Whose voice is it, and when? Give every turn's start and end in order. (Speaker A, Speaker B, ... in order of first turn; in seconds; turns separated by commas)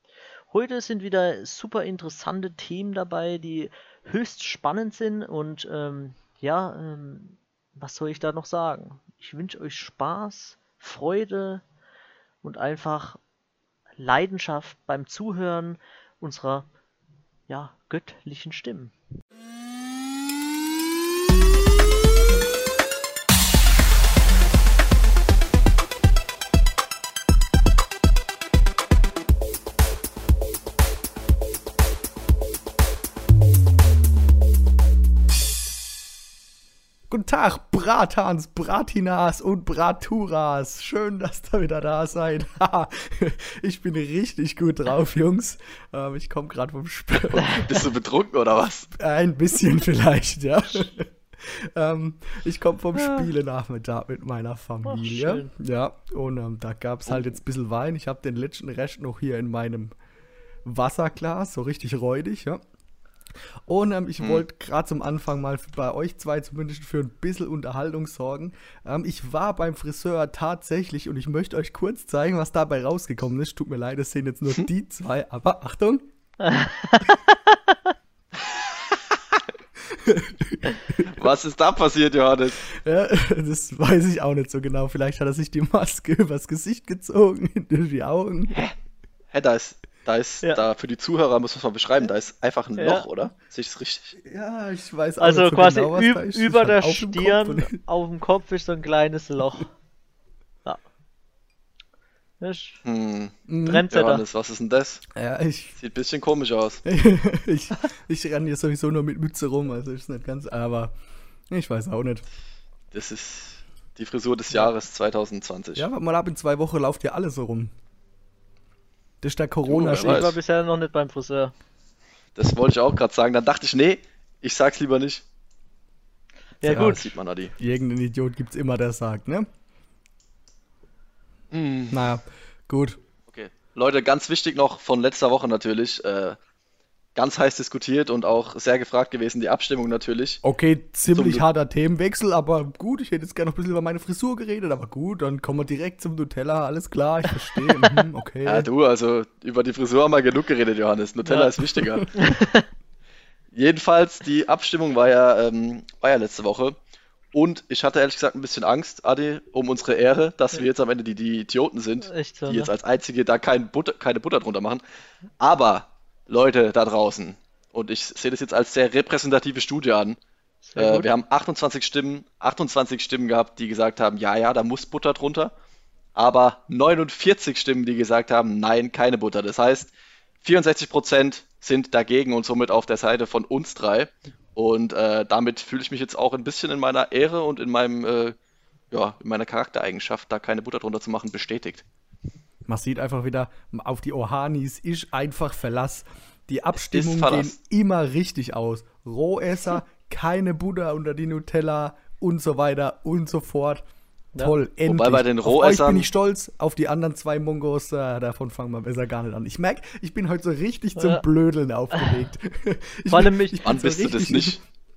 Speaker A: 0.5-11.6, Speaker A: 12.4-13.2, Speaker A: 14.0-16.7, Speaker A: 17.5-18.9, Speaker B: 37.1-47.7, Speaker C: 47.3-48.9, Speaker B: 48.9-59.9, Speaker C: 53.0-53.3, Speaker A: 54.9-55.5, Speaker C: 57.1-57.4, Speaker B: 60.6-62.6, Speaker B: 63.7-76.1, Speaker A: 76.4-77.8, Speaker B: 79.8-81.3, Speaker C: 81.0-82.6, Speaker B: 82.6-88.6, Speaker C: 89.3-94.2, Speaker A: 92.8-93.1, Speaker B: 94.2-97.8, Speaker A: 95.2-99.7, Speaker A: 102.4-102.8, Speaker C: 102.8-103.3, Speaker B: 103.5-103.8, Speaker A: 103.6-104.2, Speaker C: 103.9-105.0, Speaker B: 105.1-105.8, Speaker C: 105.8-106.8, Speaker B: 106.8-110.9, Speaker B: 111.5-112.2, Speaker C: 112.9-115.9, Speaker B: 115.8-117.7, Speaker B: 119.2-120.3, Speaker C: 119.7-120.4, Speaker A: 120.0-121.5, Speaker C: 122.4-125.2, Speaker A: 126.6-127.1, Speaker C: 126.7-127.5, Speaker B: 126.7-129.5, Speaker C: 131.5-132.0, Speaker B: 131.9-133.0, Speaker C: 133.3-136.4, Speaker C: 137.2-140.4, Speaker B: 140.4-148.7, Speaker C: 141.1-141.4, Speaker C: 148.4-152.1, Speaker A: 151.3-151.5, Speaker B: 151.8-152.1, Speaker A: 152.1-152.7, Speaker C: 153.5-156.8, Speaker C: 157.3-164.8, Speaker A: 162.0-162.7, Speaker C: 165.4-170.2, Speaker A: 170.6-171.1, Speaker C: 170.8-175.5, Speaker C: 176.2-188.3, Speaker C: 188.9-191.8, Speaker B: 192.7-203.8, Speaker C: 196.9-197.5, Speaker B: 204.4-214.6, Speaker C: 204.9-206.1, Speaker A: 211.0-211.2, Speaker A: 213.1-213.7, Speaker C: 213.6-214.6